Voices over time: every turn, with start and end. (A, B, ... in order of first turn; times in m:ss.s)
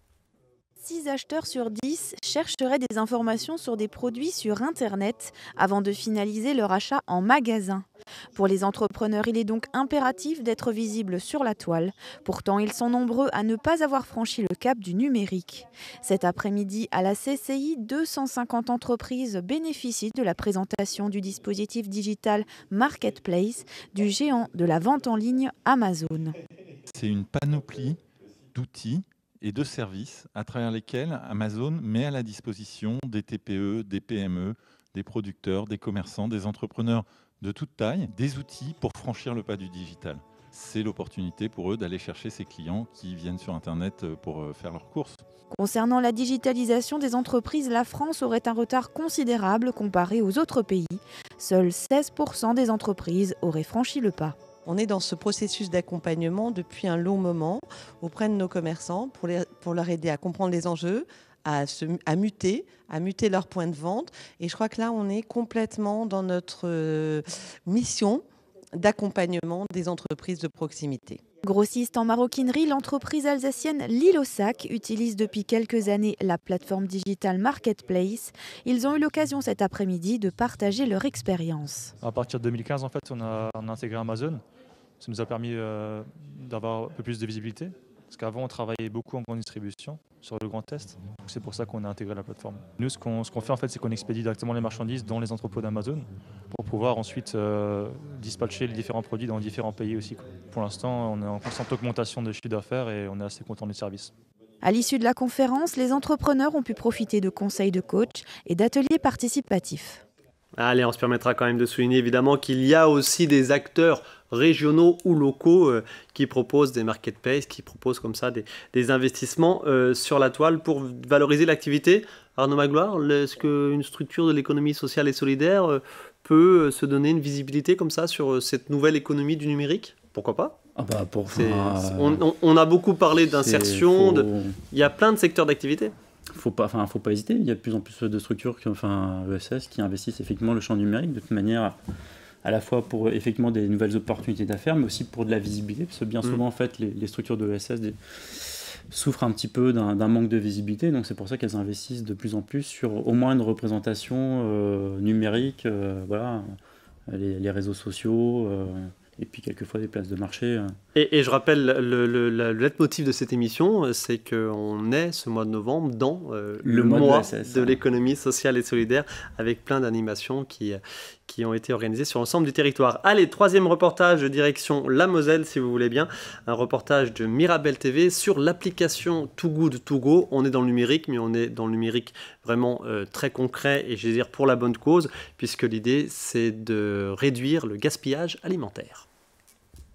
0:00.8-0:26.4 A
0:26.9-0:28.0 B
0:28.5-0:45.2 B
0:45.5-0:54.4 A
0:54.6-1:08.2 C
1:08.8-1:11.2 C
1:11.4-1:21.9 A
1:22.0-1:24.4 D
1:25.0-1:44.1 D
1:44.6-1:50.0 A
1:50.6-2:10.6 E
2:10.8-2:12.2 F
2:11.3-2:15.9 E
2:13.3-2:14.6 F
2:16.3-2:21.8 F
2:22.4-2:36.5 F
2:37.1-2:40.8 F
2:41.0-3:09.1 E
2:46.6-2:47.8 F